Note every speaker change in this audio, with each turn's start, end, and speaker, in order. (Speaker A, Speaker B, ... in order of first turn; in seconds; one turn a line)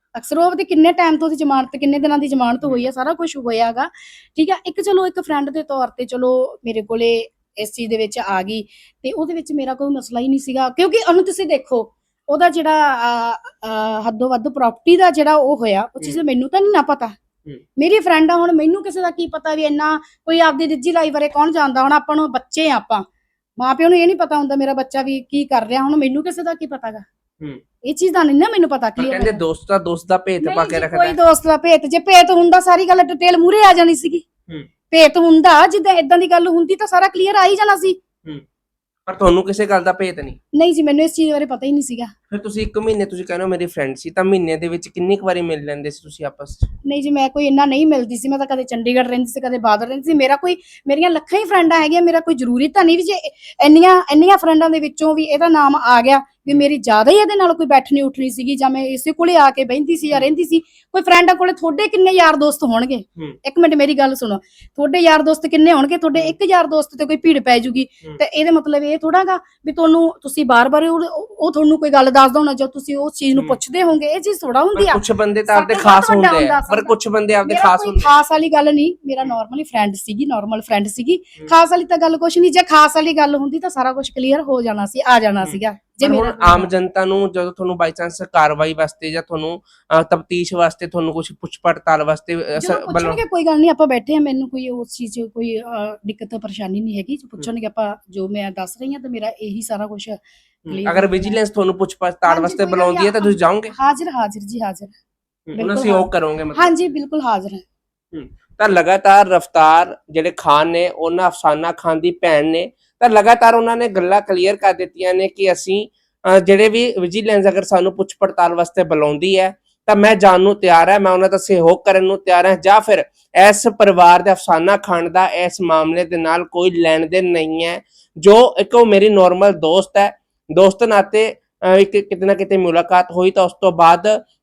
Speaker A: 0.1-17.1
Speaker A: 17.8-23.1
Speaker A: 23.6-27.0
Speaker A: 27.8-29.4
Speaker B: 29.0-31.2
Speaker A: 30.4-34.2
Speaker A: 34.9-38.0
Speaker B: 39.1-40.4
Speaker A: 40.5-42.1
Speaker B: 42.3-46.7
Speaker A: 46.8-86.7
Speaker B: 74.7-78.1
Speaker B: 85.4-93.2
Speaker A: 92.6-101.4
Speaker B: 100.7-103.7
Speaker A: 102.3-104.9
Speaker B: 105.5-106.7
Speaker A: 105.5-107.6
Speaker B: 108.1-134.2